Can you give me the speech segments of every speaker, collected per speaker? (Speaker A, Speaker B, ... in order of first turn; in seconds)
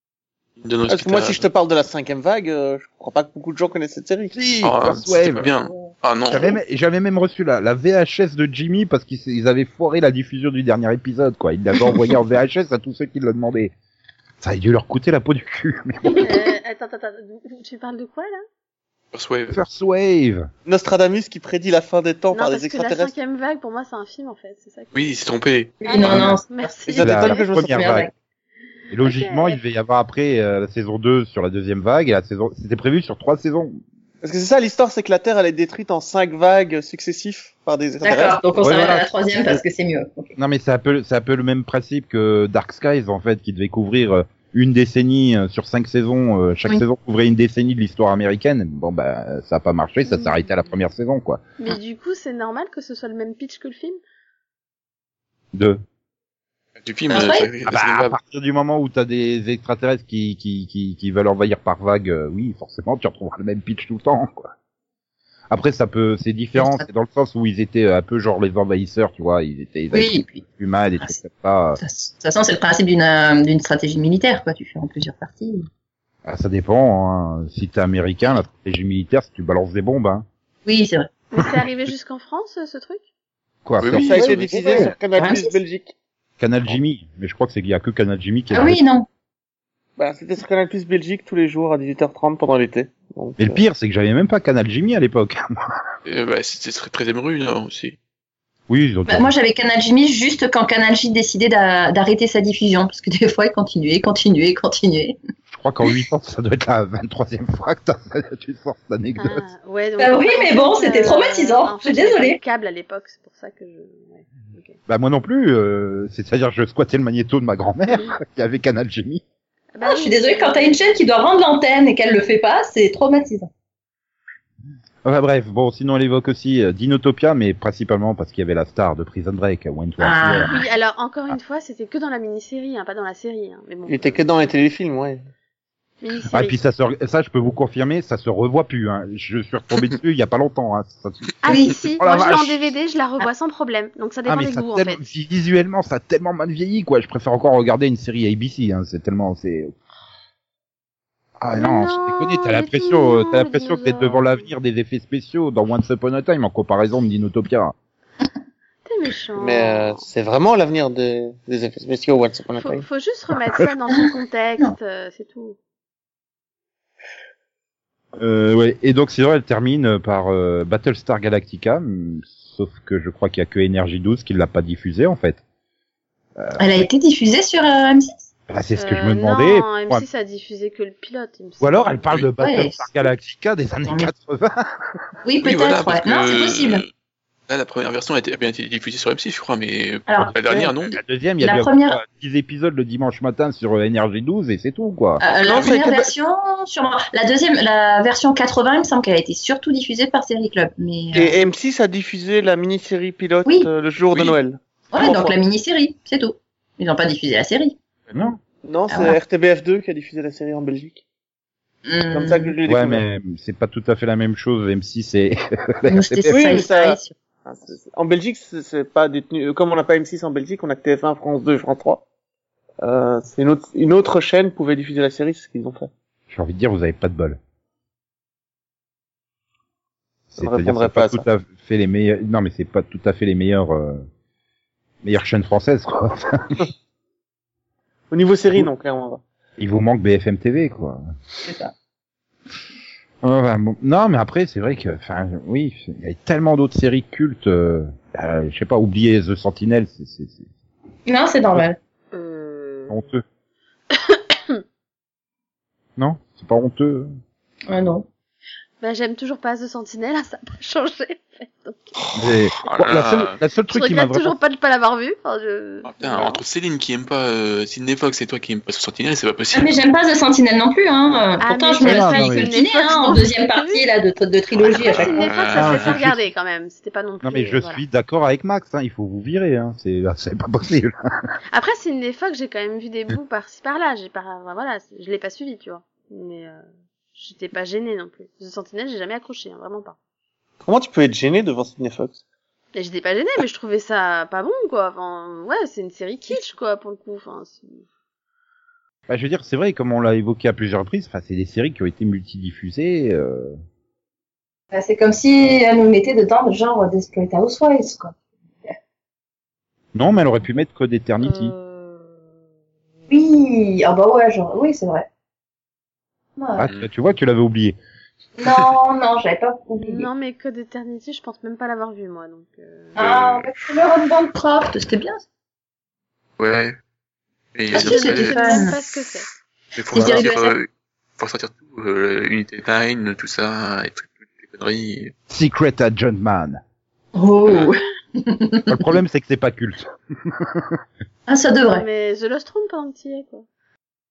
Speaker A: 0.6-1.4, 4.6-6.6, 19.1-19.6, 24.9-25.8, 56.8-58.2, 83.8-84.9, 96.0-98.0, 185.4-186.9, 187.5-191.0, 204.1-204.4, 262.6-263.4, 265.9-269.8, 275.2-276.0, 323.0-323.5, 326.4-326.8, 327.6-328.7, 329.8-335.1, 337.5-337.7
Speaker B: 0.9-4.4, 20.7-23.1, 26.9-27.9, 34.2-38.5, 83.9-85.9, 90.0-93.6, 133.9-135.2, 159.4-162.9, 195.4-196.1, 201.1-205.4, 208.6-211.0, 212.1-213.0, 216.3-222.0, 222.8-225.9, 230.4-231.2, 238.1-239.2, 290.6-292.2
Speaker C: 4.3-5.5, 6.3-13.7, 14.4-16.4, 19.5-20.5, 26.0-26.4, 27.0-28.1, 28.9-33.8, 38.6-39.6, 40.4-51.4, 55.5-55.8, 57.7-64.5, 65.5-71.8, 76.2-80.3, 83.7-85.0, 86.4-88.8, 93.4-95.5, 98.7-99.3, 105.5-109.4, 114.9-119.2, 125.0-130.5, 136.3-142.7, 144.3-149.8, 151.4-157.7, 168.2-175.4, 178.5-180.1, 181.6-184.6, 190.9-195.2, 212.7-216.6, 226.3-227.4, 230.3-234.1, 235.0-236.7, 239.6-241.0, 243.2-250.5, 252.9-253.2, 256.0-257.1, 262.2-264.4, 271.8-272.6, 275.5-276.3, 277.2-280.9, 299.1-303.6, 309.9-311.5, 316.6-317.8, 335.3-336.6, 338.7-340.8
Speaker D: 16.2-18.4, 22.3-24.9, 25.9-27.5, 29.0-29.6, 50.1-50.4, 51.6-54.0, 81.3-83.0, 109.2-114.8, 119.8-120.9, 130.5-134.2, 136.0-136.6, 141.4-145.0, 151.6-154.5, 158.8-160.1, 162.6-165.6, 178.8-182.1, 252.1-253.0, 253.9-254.6, 258.8-261.9, 263.7-266.4, 271.4-273.9, 274.6-277.8, 281.5-286.6, 287.2-290.0, 292.8-297.8, 311.2-312.2, 319.8-323.1, 327.7-329.3, 341.7-343.5
Speaker E: 25.8-26.8, 27.6-28.1, 38.0-40.4, 57.1-57.5, 66.6-66.8, 69.9-70.4, 71.8-75.7, 80.7-81.1, 85.2-85.6, 88.5-89.1, 99.1-105.2, 110.0-112.4, 119.8-123.5, 130.0-130.7, 141.5-141.8, 176.6-178.2, 182.4-182.9, 185.2-186.8, 190.1-190.7, 191.4-192.0, 195.2-201.4, 204.9-207.8, 208.9-209.2, 211.8-212.6, 215.9-217.2, 241.4-241.7, 251.1-251.8, 257.7-258.1, 269.5-275.2, 304.7-308.7, 313.1-315.1, 316.4-316.6, 318.4-320.1, 323.0-325.2, 327.7-328.8, 329.9-330.6, 337.1-338.9, 341.3-341.9